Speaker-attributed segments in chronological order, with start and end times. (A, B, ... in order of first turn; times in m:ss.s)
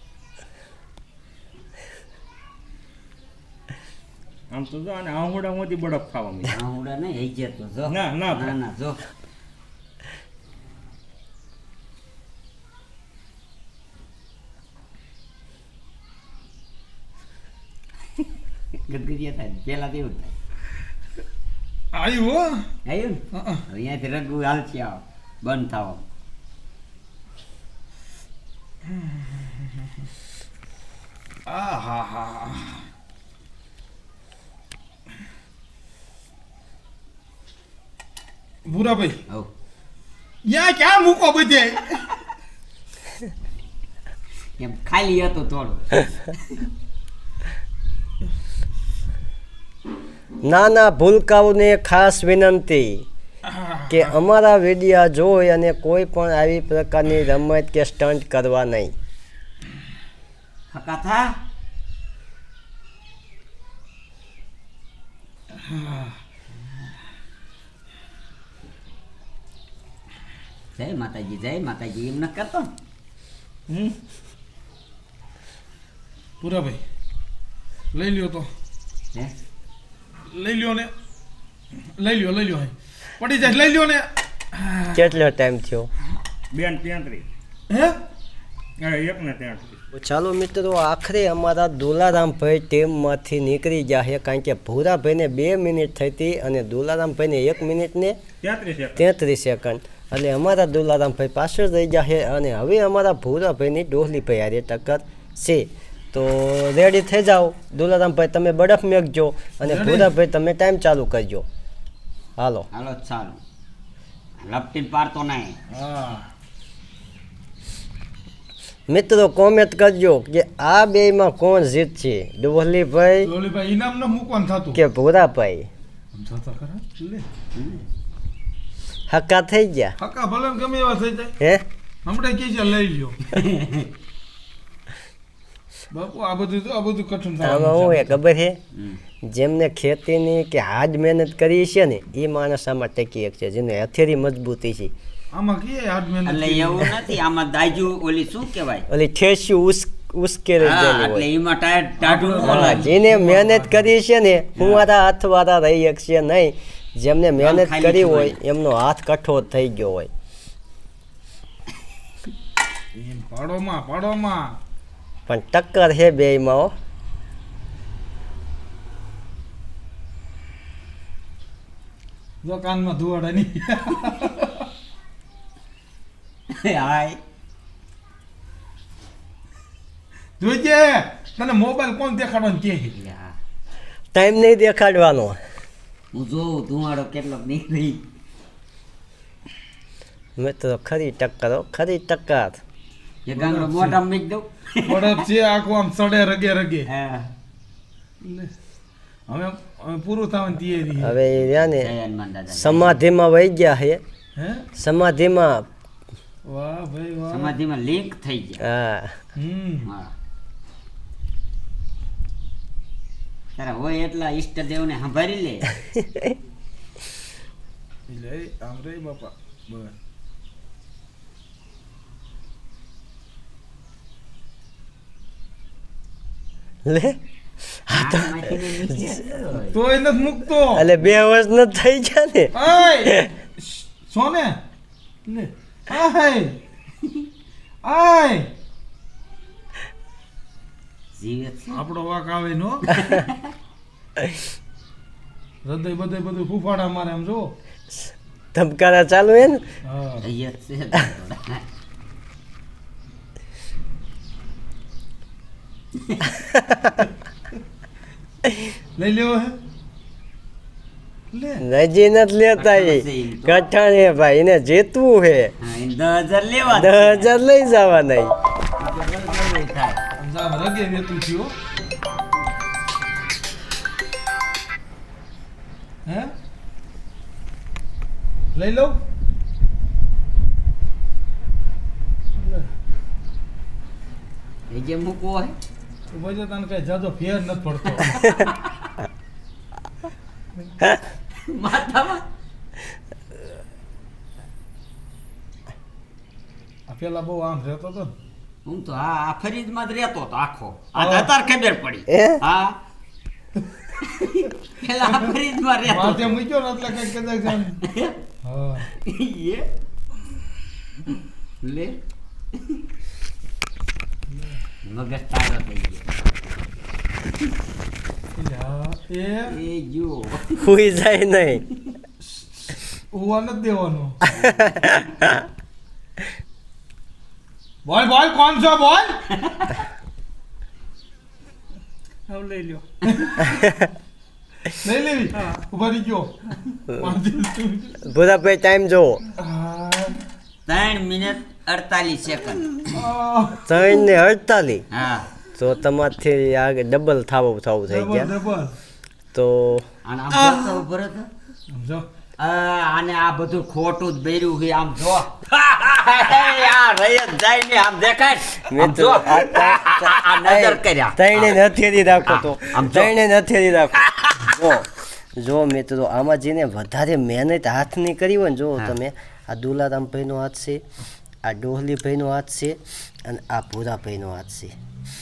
0:04.5-0:06.6 A
0:06.5-0:09.0 B
0:07.9-0:08.6 A
0:18.9-0:20.3 B
0:21.9-0:22.7 C
0:22.8-0:26.0 B
0:23.3-0:23.6 C
0:28.9-0:29.4 C
0:31.5-0:32.8 C
0:38.6-0:39.2 C
0:40.4-0:42.1 C
0:44.6-0:46.4 B
0:50.4-0:53.0 D
0:53.5-0:53.8 C
0:53.9-0:58.9 D
1:00.7-1:01.3 B
1:05.6-1:06.2 C
1:10.8-1:12.7 B
1:13.7-1:14.0 A
1:16.4-1:16.8 C
1:17.9-1:18.5 C
1:20.3-1:20.9 C
1:22.0-1:25.0 C
1:24.9-1:25.9 D
1:26.5-1:27.3 A
1:27.7-1:28.0 C
1:28.8-1:29.8 A
1:29.9-1:38.2 D
1:38.4-1:39.1 A
1:39.0-1:51.4 D
1:49.6-1:50.1 C
1:52.4-1:52.7 D
1:52.7-1:53.4 B
1:54.4-1:55.6 B
1:55.7-1:56.3 C
1:58.9-2:03.3 D
2:03.2-2:04.8 C
2:04.7-2:05.7 D
2:06.1-2:07.3 C
2:07.6-2:07.8 B
2:09.1-2:10.0 D
2:10.0-2:11.4 C
2:12.0-2:13.3 C
2:13.3-2:13.9 B
2:15.9-2:18.2 C
2:17.4-2:18.6 D
2:18.8-2:19.0 B
2:19.3-2:24.9 D
2:25.3-2:26.9 C
2:26.2-2:28.9 B
2:28.9-2:31.3 D
2:30.6-2:32.9 B
2:32.0-2:33.9 C
2:32.4-2:40.1 D
2:34.6-2:34.9 B
2:37.4-2:38.4 B
2:43.0-2:44.6 C
2:45.3-2:46.7 D
2:52.4-2:54.7 C
2:56.5-2:57.2 B
3:00.4-3:02.9 C
3:02.9-3:03.3 B
3:04.1-3:05.4 D
3:06.1-3:08.0 B
3:10.4-3:12.6 D
3:13.3-3:15.2 B
3:13.4-3:14.0 C
3:14.9-3:16.9 C
3:16.9-3:17.3 B
3:18.2-3:18.5 C
3:19.3-3:21.2 C
3:20.9-3:21.9 D
3:21.5-3:23.0 B
3:22.5-3:24.0 D
3:24.4-3:24.7 C
3:24.8-3:25.7 D
3:26.5-3:27.5 C
3:27.3-3:28.6 B
3:28.6-3:29.1 D
3:29.4-3:29.9 C
3:29.8-3:30.1 B
3:33.6-3:35.7 B
3:35.9-3:36.3 D
3:38.1-3:40.0 C
3:46.9-3:47.2 D
3:47.9-3:49.0 D
3:47.9-3:49.8 B
3:49.7-3:50.8 C
3:50.8-3:53.3 D
3:52.5-3:54.6 C
3:55.3-3:56.6 C
3:57.8-3:58.5 C
4:01.2-4:01.8 B
4:01.7-4:02.9 C
4:02.9-4:03.4 B
4:05.6-4:07.5 C
4:08.6-4:09.6 D
4:09.8-4:10.2 C
4:10.2-4:11.6 B
4:16.0-4:16.4 B
4:16.5-4:17.1 D
4:19.0-4:19.6 C
4:21.3-4:21.6 C
4:21.6-4:25.5 D
4:22.6-4:23.6 B
4:25.6-4:27.4 B
4:26.7-4:28.3 D
4:28.8-4:30.0 B
4:30.2-4:31.5 C
4:36.1-4:36.3 C
4:38.6-4:39.0 C
4:42.4-4:42.7 C
4:44.7-4:45.6 B
4:46.1-4:48.3 C
4:48.0-4:48.7 B
4:51.5-4:52.2 B
4:56.9-4:58.1 C
4:58.6-5:02.8 B
5:01.0-5:01.3 C
5:02.1-5:02.4 D
5:04.0-5:06.3 B
5:05.0-5:05.3 C
5:05.8-5:07.8 C
5:07.8-5:08.2 B
5:08.4-5:08.9 C
5:09.0-5:09.7 B
5:11.6-5:12.0 B
5:14.8-5:16.1 B
5:18.4-5:19.5 C
5:19.5-5:20.7 B
5:20.6-5:21.6 D
5:23.1-5:24.2 C
5:24.3-5:24.8 B
5:24.4-5:25.4 D
5:27.8-5:29.2 C
5:29.3-5:29.8 B
5:32.3-5:33.4 A
5:33.0-5:33.4 C
5:33.6-5:33.9 D
5:34.7-5:38.0 C
5:38.0-5:39.2 D
5:39.3-5:40.3 C
5:40.7-5:43.0 B
5:42.9-5:43.7 C
5:43.7-5:44.8 D
5:44.9-5:45.3 B
5:45.6-5:48.3 D
5:47.9-5:48.8 C
5:49.3-5:49.8 D
5:50.0-5:51.3 B
5:51.7-5:52.0 C
5:52.4-6:01.7 B
5:58.7-6:10.8 D
6:02.3-6:03.1 B
6:04.2-6:04.5 B
6:11.4-6:14.7 D